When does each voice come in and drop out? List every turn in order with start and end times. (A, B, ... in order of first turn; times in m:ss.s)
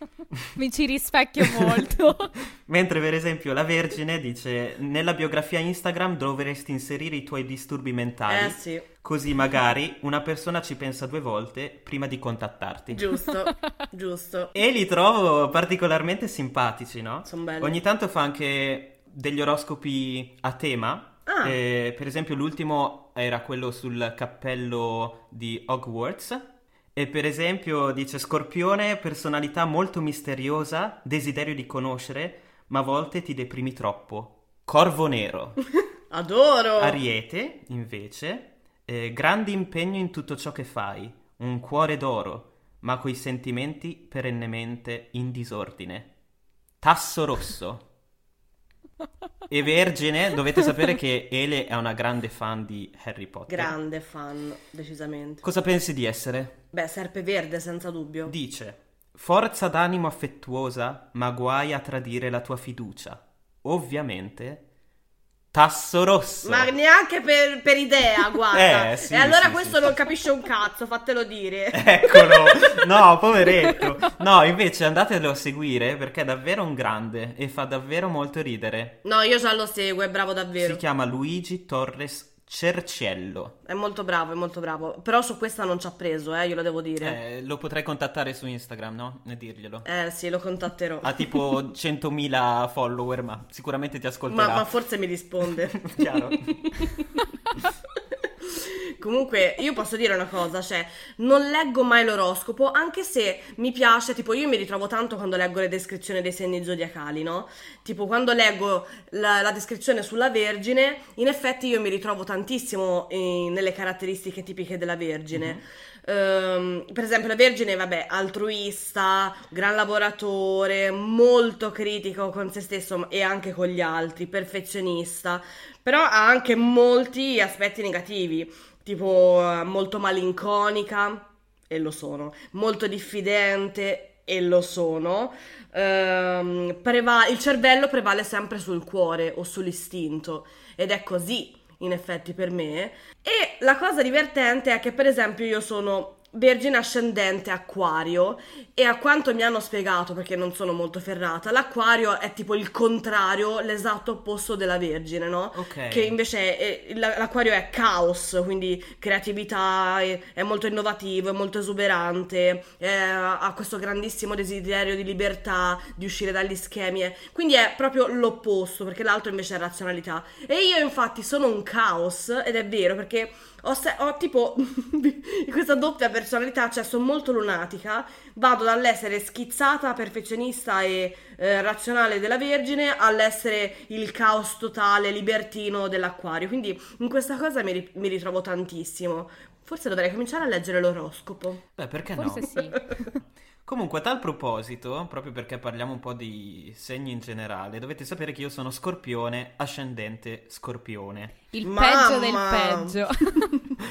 0:00.6-0:02.3 A
0:01.4-0:01.9 B
0:02.6-0:13.1 B
0:08.3-0:08.8 C
0:12.9-0:14.5 C
0:14.5-0:35.6 B
0:17.2-0:17.8 C
0:21.2-0:21.6 C
0:36.1-0:37.0 C
0:36.8-0:46.1 B
0:46.8-0:47.9 B
0:49.5-0:53.7 B
0:53.5-0:55.4 C
0:55.4-0:56.6 B
0:56.7-0:58.3 C
0:58.2-1:04.6 B
1:05.5-1:06.7 B
1:06.4-1:12.8 C
1:08.5-1:10.0 B
1:11.7-1:19.0 B
1:19.0-1:20.8 C
1:20.6-1:23.5 B
1:23.6-1:27.2 C
1:27.0-1:29.8 B
1:29.8-1:31.2 C
1:31.0-1:34.7 B
1:34.3-1:37.1 C
1:35.8-1:36.6 B
1:38.4-3:11.6 C
1:55.3-1:55.6 B
2:35.5-2:36.2 B
3:11.8-3:12.5 B
3:12.1-3:12.9 A
3:13.6-3:21.4 B
3:21.5-3:23.5 A
3:21.6-3:23.0 C